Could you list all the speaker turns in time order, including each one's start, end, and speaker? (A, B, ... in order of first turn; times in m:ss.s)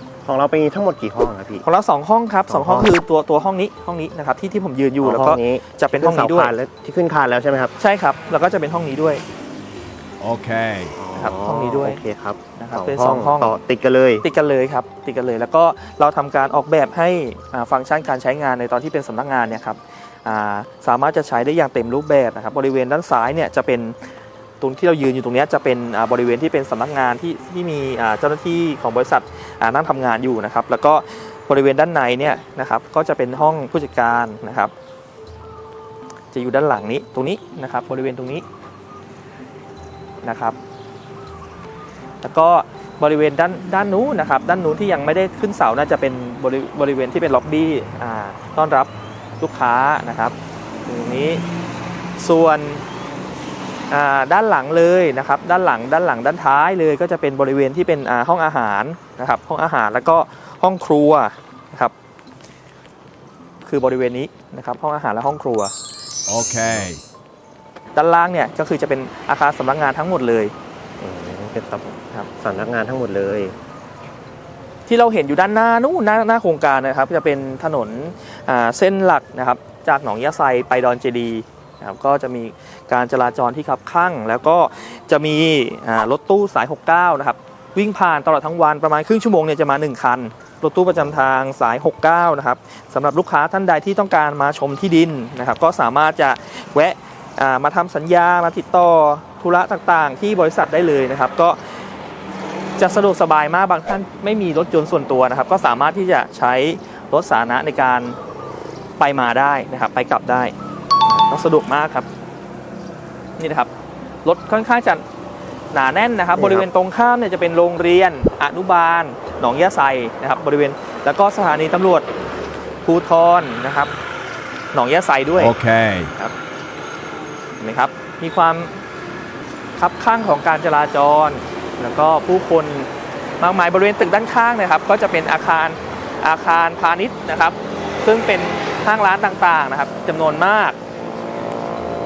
0:00.2-0:01.6 A
0:01.6-0:06.5 B
0:02.5-0:02.9 A
0:05.0-0:07.7 A
0:07.8-0:09.2 B
0:10.2-0:11.0 C
0:11.0-0:14.2 A
0:11.2-0:12.0 B
0:12.6-0:13.6 B
0:14.2-0:24.0 B
0:24.6-0:34.7 B
0:36.3-0:38.4 B
0:40.2-0:40.6 B
0:42.2-0:51.4 B
0:52.2-0:52.8 B
0:53.9-1:01.9 B
1:03.6-1:05.7 B
1:06.3-1:07.0 C
1:08.0-1:10.5 B
1:11.0-1:13.6 A
1:14.9-1:41.6 B
1:42.8-1:48.2 B
1:49.0-1:50.5 B
1:51.1-1:52.1 B
1:53.4-1:53.7 B
1:54.2-1:55.0 B
1:55.7-2:02.1 B
1:56.4-1:56.7 A
2:02.8-2:03.9 B
2:04.7-2:05.6 B
2:05.4-2:06.1 C
2:07.6-2:08.7 B
2:09.8-2:12.9 B
2:13.4-2:20.8 B